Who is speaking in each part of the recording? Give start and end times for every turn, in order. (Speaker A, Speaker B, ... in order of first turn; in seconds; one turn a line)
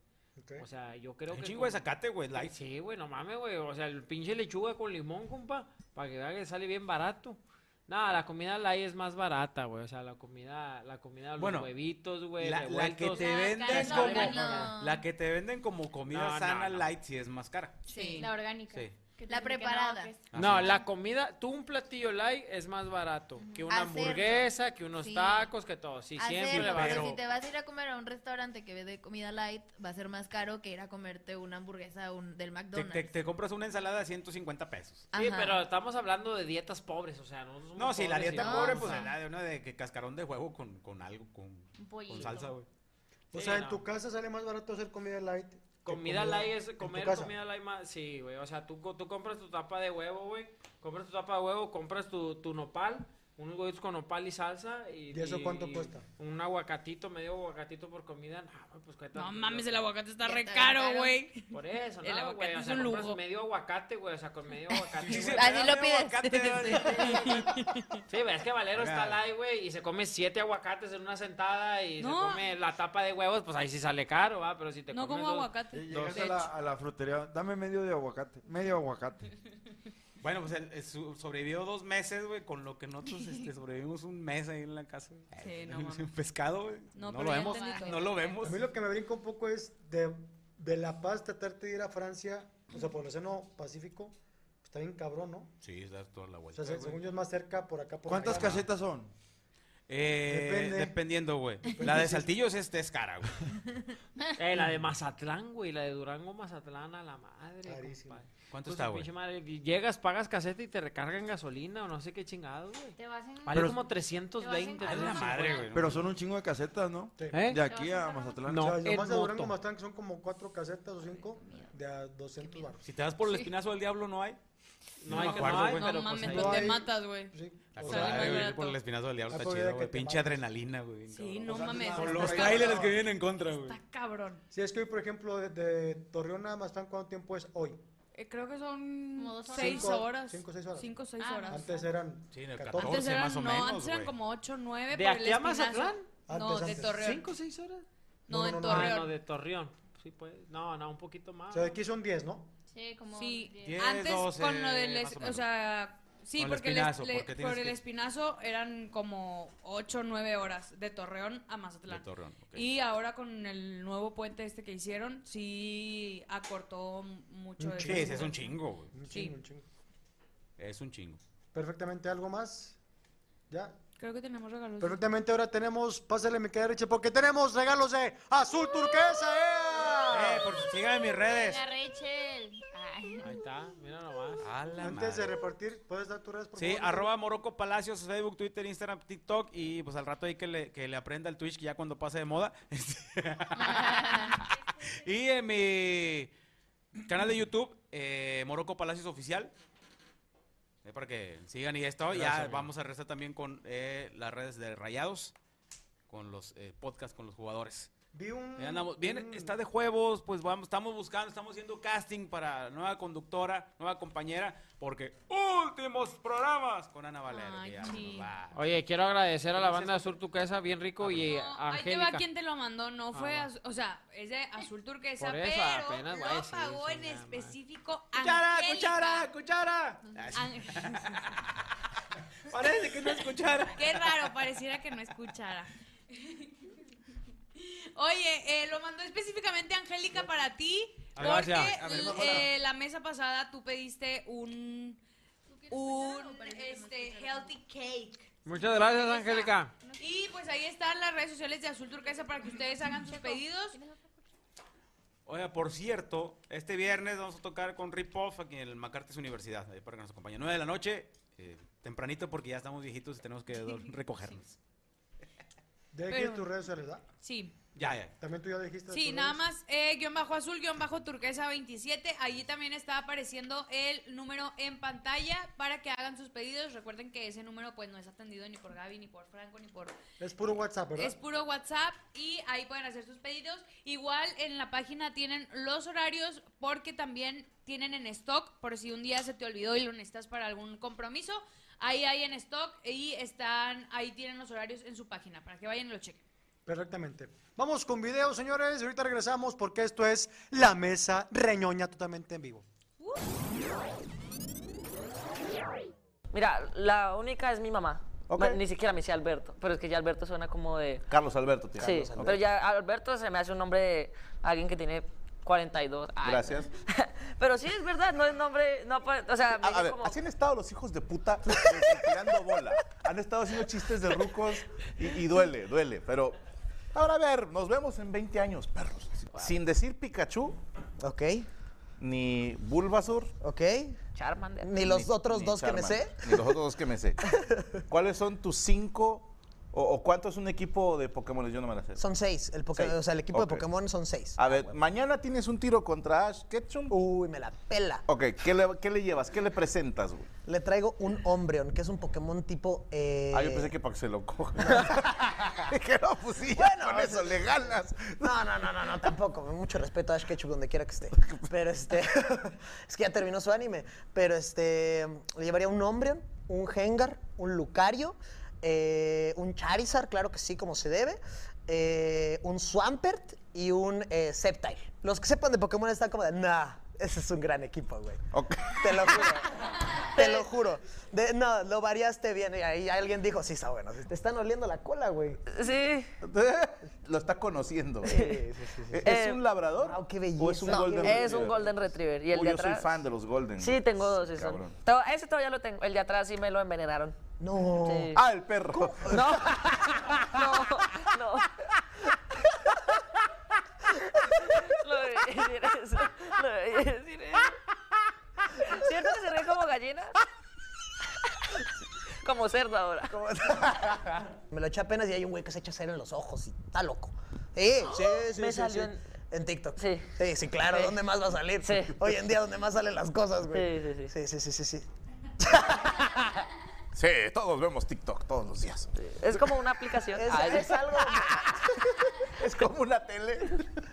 Speaker A: 0.4-0.6
Speaker B: 0.6-14.7
Speaker C: 1.3-2.5
Speaker C: 11.4-11.7
Speaker C: 12.4-17.9
Speaker D: 13.1-14.7
Speaker E: 13.6-15.0
Speaker B: 16.1-16.9
Speaker D: 17.9-20.2
Speaker E: 17.9-18.3
Speaker E: 19.3-20.1
Speaker C: 20.3-20.7
Speaker B: 20.3-27.1
Speaker E: 23.7-25.5
Speaker E: 26.2-33.1
Speaker C: 26.5-27.2
Speaker C: 32.7-35.1
Speaker E: 35.1-35.6
Speaker B: 35.1-39.1
Speaker C: 37.8-42.6
Speaker E: 38.4-39.0
Speaker D: 41.8-42.5
Speaker A: 43.3-47.3
Speaker B: 43.3-43.8
Speaker B: 45.8-59.8
Speaker A: 55.1-56.0
Speaker F: 59.1-61.5
Speaker D: 60.2-61.1
Speaker B: 61.5-65.5
Speaker F: 62.0-63.2
Speaker C: 65.0-67.2
Speaker E: 65.4-66.7
Speaker F: 67.0-68.0
Speaker B: 68.1-76.3
Speaker C: 68.7-69.2
Speaker F: 72.0-72.4
Speaker F: 74.9-76.5
Speaker G: 75.7-79.3
Speaker C: 80.2-88.6
Speaker F: 85.3-86.1
Speaker F: 86.9-88.1
Speaker D: 87.4-88.3
Speaker A: 88.4-95.5
Speaker C: 95.6-97.0
Speaker A: 96.5-98.7
Speaker G: 98.0-99.1
Speaker C: 98.2-98.6
Speaker C: 99.9-103.5
Speaker A: 100.3-100.9
Speaker A: 101.7-102.3
Speaker B: 104.4-115.7
Speaker A: 107.6-108.2
Speaker C: 108.5-109.1
Speaker D: 113.0-113.8
Speaker G: 113.5-113.8
Speaker D: 114.4-115.7
Speaker C: 114.8-116.0
Speaker G: 115.7-118.8
Speaker A: 117.2-117.5
Speaker B: 117.3-117.6
Speaker D: 117.6-118.4
Speaker B: 118.5-119.5
Speaker A: 118.5-122.8
Speaker D: 121.1-121.7
Speaker C: 122.8-124.4
Speaker B: 125.0-126.8
Speaker C: 125.0-126.0
Speaker F: 125.1-128.8
Speaker A: 126.2-128.5
Speaker C: 127.7-133.8
Speaker A: 129.3-130.3
Speaker F: 131.1-132.8
Speaker G: 131.4-133.0
Speaker F: 133.5-134.4
Speaker A: 134.5-137.8
Speaker F: 138.1-141.6
Speaker D: 139.2-140.0
Speaker A: 139.5-140.9
Speaker D: 141.2-141.9
Speaker A: 141.5-143.1
Speaker C: 142.3-144.1
Speaker F: 142.8-147.3
Speaker B: 144.9-146.1
Speaker A: 146.3-147.1
Speaker B: 146.9-147.8
Speaker A: 148.3-149.0
Speaker F: 148.3-149.1
Speaker B: 148.6-151.8
Speaker A: 151.5-152.5
Speaker D: 152.7-153.8
Speaker F: 153.1-168.4
Speaker C: 153.6-155.4
Speaker C: 156.4-157.8
Speaker C: 161.9-162.7
Speaker A: 167.6-169.6
Speaker C: 167.8-168.9
Speaker F: 169.1-169.3
Speaker C: 170.6-171.2
Speaker A: 171.5-172.8
Speaker A: 173.5-173.8
Speaker F: 174.0-175.0
Speaker A: 174.8-180.5
Speaker C: 180.1-181.6
Speaker D: 181.3-183.4
Speaker B: 183.2-184.4
Speaker C: 184.4-185.3
Speaker A: 184.8-187.1
Speaker C: 186.6-196.3
Speaker D: 193.6-194.3
Speaker C: 197.0-199.5
Speaker C: 200.8-205.3
Speaker B: 202.1-202.7
Speaker C: 206.1-207.9
Speaker A: 208.1-209.5
Speaker C: 208.6-218.6
Speaker F: 217.3-218.3
Speaker B: 218.5-222.2
Speaker C: 219.6-219.9
Speaker F: 221.1-229.3
Speaker B: 223.1-223.5
Speaker B: 225.2-227.6
Speaker C: 228.2-231.4
Speaker F: 230.3-231.3
Speaker C: 232.5-234.3
Speaker F: 233.7-236.5
Speaker F: 237.6-245.0
Speaker C: 241.1-242.5
Speaker B: 241.2-241.8
Speaker F: 245.7-248.3
Speaker D: 245.7-247.3
Speaker E: 245.7-247.4
Speaker B: 248.4-249.7
Speaker F: 248.9-249.4
Speaker D: 248.9-250.0
Speaker F: 250.0-253.8
Speaker D: 252.9-254.2
Speaker C: 255.2-264.6
Speaker A: 265.9-267.0
Speaker F: 266.1-266.5
Speaker F: 267.2-267.6
Speaker C: 267.8-268.1
Speaker A: 267.8-269.4
Speaker F: 268.9-279.9
Speaker A: 280.2-281.2
Speaker F: 280.9-296.2
Speaker A: 296.6-302.6
Speaker H: 306.3-311.1
Speaker I: 308.3-308.6
Speaker I: 311.1-312.4
Speaker H: 311.8-320.2
Speaker J: 311.8-312.3
Speaker I: 316.2-316.7
Speaker I: 319.5-326.4
Speaker J: 321.5-322.1
Speaker I: 326.9-330.6
Speaker J: 331.0-331.5
Speaker I: 332.0-333.3
Speaker J: 333.4-334.0
Speaker H: 334.1-334.9
Speaker J: 334.6-336.5
Speaker I: 334.8-337.2
Speaker J: 337.3-337.6
Speaker I: 337.9-342.1
Speaker J: 342.0-344.8
Speaker I: 342.7-343.7
Speaker I: 344.4-346.9
Speaker J: 346.9-348.1
Speaker I: 348.1-350.3
Speaker J: 350.4-353.7
Speaker I: 353.3-358.3
Speaker J: 354.6-355.0
Speaker J: 356.5-379.4
Speaker I: 361.1-361.4
Speaker I: 378.3-379.4
Speaker J: 380.0-385.4
Speaker H: 385.5-386.1
Speaker I: 386.2-394.8
Speaker H: 388.0-388.4
Speaker J: 388.1-389.1
Speaker H: 389.0-389.4
Speaker J: 389.8-391.5
Speaker H: 390.6-392.9
Speaker H: 393.6-397.2
Speaker J: 397.4-398.1
Speaker H: 397.8-398.2
Speaker I: 398.1-400.8
Speaker H: 399.1-401.5
Speaker H: 404.6-407.5
Speaker H: 408.6-410.1
Speaker H: 412.2-413.1
Speaker J: 413.5-413.9
Speaker J: 414.5-424.9
Speaker I: 417.9-418.6
Speaker H: 417.9-419.0
Speaker H: 419.8-420.1
Speaker H: 420.7-421.0
Speaker H: 421.6-421.9
Speaker H: 423.5-424.1
Speaker J: 425.4-426.0
Speaker I: 426.9-429.7
Speaker H: 429.0-430.8
Speaker J: 430.1-431.5
Speaker I: 430.3-431.7
Speaker I: 432.3-433.7